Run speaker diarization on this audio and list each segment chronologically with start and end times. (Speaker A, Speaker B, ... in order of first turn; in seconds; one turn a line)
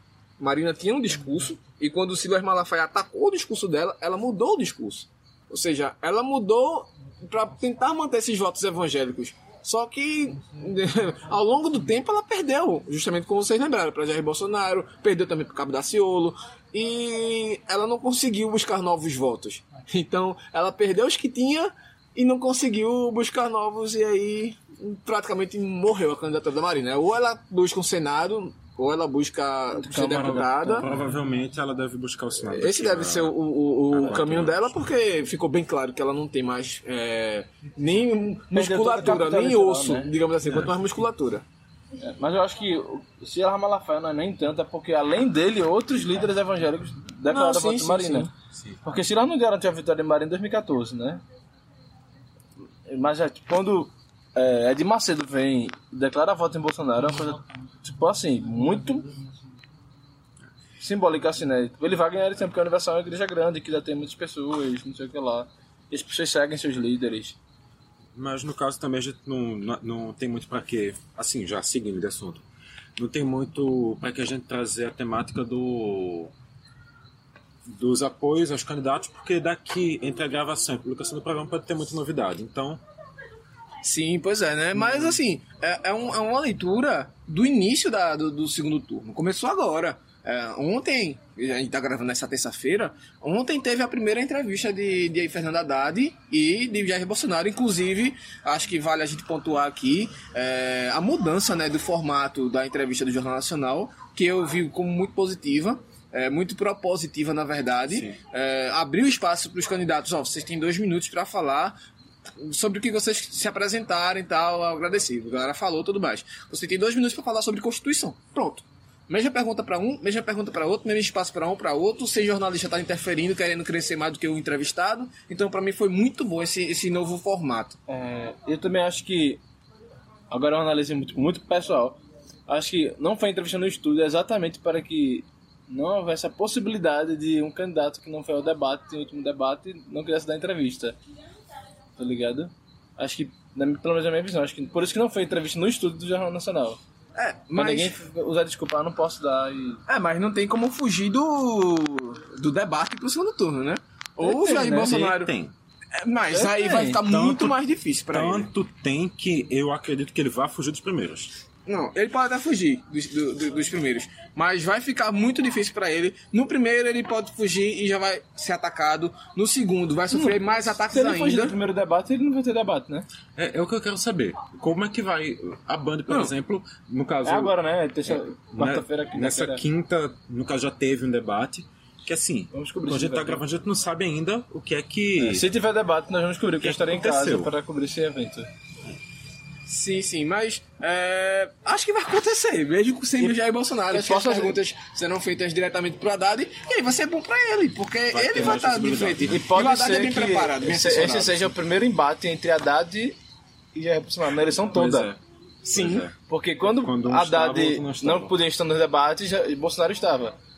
Speaker A: 0.4-30.9
Speaker B: 29.8-30.5
Speaker C: 29.9-33.3
Speaker A: 32.5-41.4
Speaker C: 33.9-34.7
Speaker B: 38.5-40.1
Speaker C: 40.5-40.8
Speaker B: 42.0-48.3
Speaker A: 47.3-48.3
Speaker B: 48.8-51.2
Speaker B: 52.9-59.2
Speaker B: 60.8-67.4
Speaker C: 68.1-72.4
Speaker C: 73.0-76.3
Speaker C: 77.7-82.8
Speaker A: 83.8-111.8
Speaker A: 112.4-127.8
Speaker B: 127.9-129.4
Speaker B: 130.3-140.9
Speaker B: 142.0-146.8
Speaker A: 147.2-147.9
Speaker B: 147.6-149.8
Speaker A: 149.9-155.3
Speaker B: 154.2-155.0
Speaker C: 154.9-155.5
Speaker A: 155.9-158.5
Speaker B: 156.3-157.0
Speaker C: 157.1-157.6
Speaker C: 158.1-161.3
Speaker A: 161.7-171.6
Speaker B: 170.1-173.1
Speaker C: 173.3-177.6
Speaker B: 177.2-179.6
Speaker C: 178.1-185.4
Speaker B: 182.5-183.4
Speaker B: 185.2-188.5
Speaker C: 186.6-187.5
Speaker A: 189.7-201.5
Speaker B: 193.9-194.6
Speaker C: 198.1-199.3
Speaker B: 199.2-203.2
Speaker B: 203.7-205.1
Speaker C: 204.7-205.2
Speaker A: 205.6-206.1
Speaker C: 205.7-206.1
Speaker B: 206.3-210.3
Speaker C: 206.7-208.3